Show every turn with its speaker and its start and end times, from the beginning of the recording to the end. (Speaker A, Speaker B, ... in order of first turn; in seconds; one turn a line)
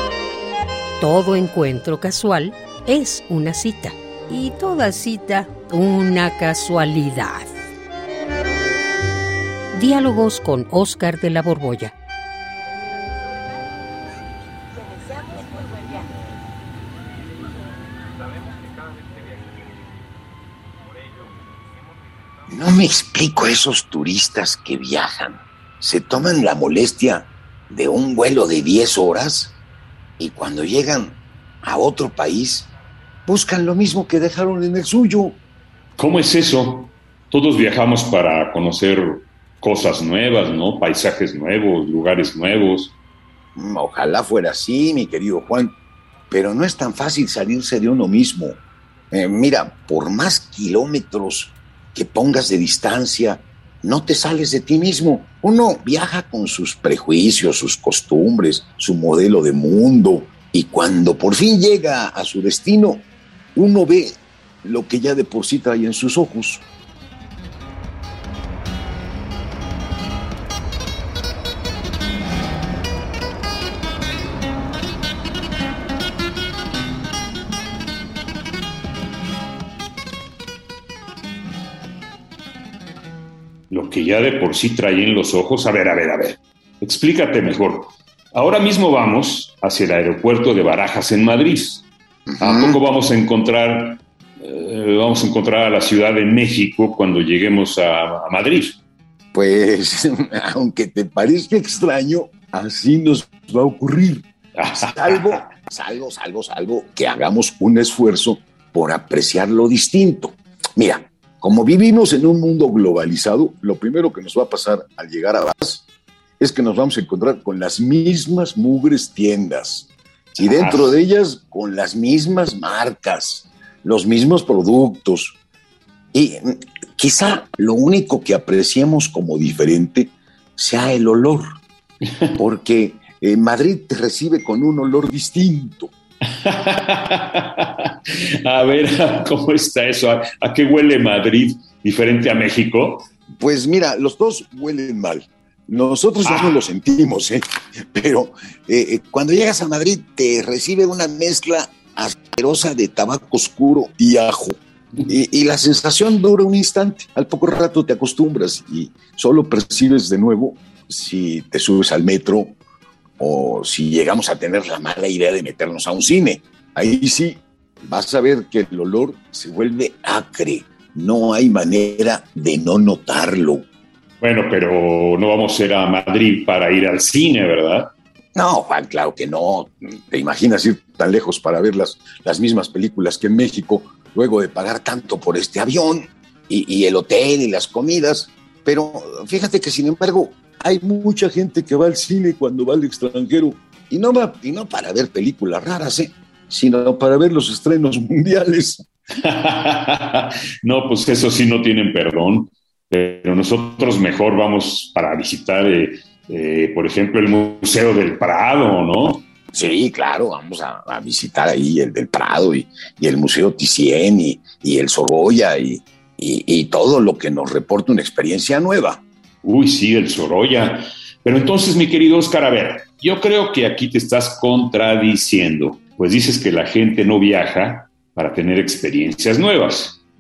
Speaker A: 1.0-7.5
Speaker A: 9.7-11.9
Speaker B: 22.5-29.6
Speaker B: 30.2-32.7
Speaker B: 33.2-35.4
Speaker C: 36.0-43.0
Speaker B: 43.5-45.8
Speaker B: 46.3-66.7
Speaker C: 83.7-91.9
Speaker B: 92.3-92.8
Speaker C: 92.4-98.8
Speaker B: 99.3-115.9
Speaker C: 104.5-105.4
Speaker B: 116.4-125.4
Speaker C: 120.4-121.0
Speaker B: 126.1-131.4
Speaker B: 132.4-135.9
Speaker C: 136.4-143.1
Speaker B: 143.4-147.4
Speaker C: 146.2-146.6
Speaker B: 147.9-162.6
Speaker B: 163.2-173.7
Speaker C: 174.2-177.9
Speaker B: 178.3-198.8
Speaker C: 199.2-209.2
Speaker B: 209.5-219.0
Speaker C: 219.4-230.0